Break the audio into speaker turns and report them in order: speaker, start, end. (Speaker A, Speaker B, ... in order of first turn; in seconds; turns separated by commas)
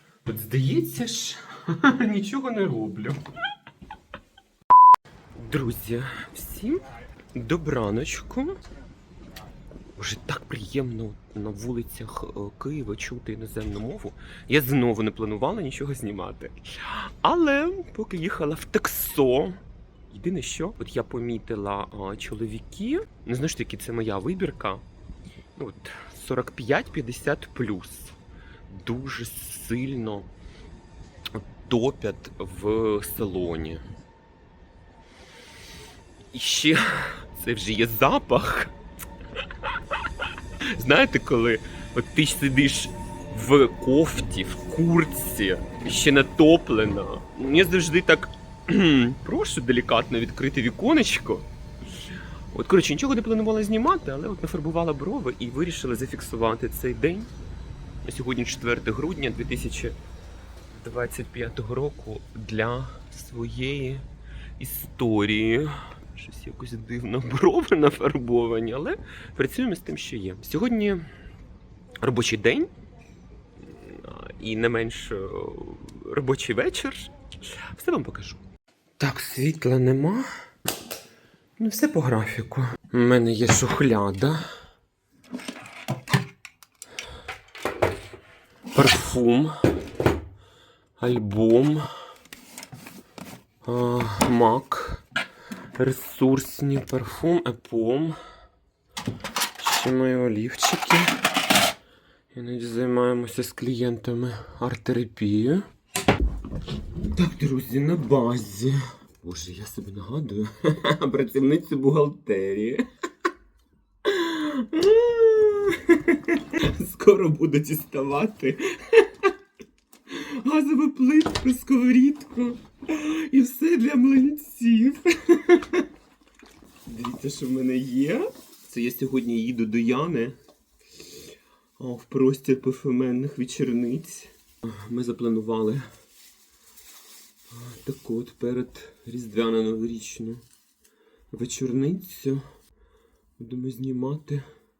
Speaker A: 0.2-3.2, Speaker A: 5.3-8.6, Speaker A: 9.9-24.8, Speaker A: 25.6-28.1, Speaker A: 28.7-30.3, Speaker A: 31.3-33.8, Speaker A: 36.3-38.7, Speaker A: 40.7-51.5, Speaker A: 52.5-57.3, Speaker A: 58.0-60.0, Speaker A: 60.7-64.0, Speaker A: 64.6-71.0, Speaker A: 72.0-72.7, Speaker A: 73.7-78.4, Speaker A: 79.0-80.3, Speaker A: 81.6-84.4, Speaker A: 88.7-89.5, Speaker A: 91.0-91.9, Speaker A: 93.6-95.0, Speaker A: 95.8-98.2, Speaker A: 99.6-101.1, Speaker A: 102.3-105.7, Speaker A: 107.1-112.8, Speaker A: 114.0-119.3, Speaker A: 120.1-125.9, Speaker A: 126.8-130.3, Speaker A: 131.8-135.9, Speaker A: 137.5-140.4, Speaker A: 141.3-142.4, Speaker A: 143.4-144.4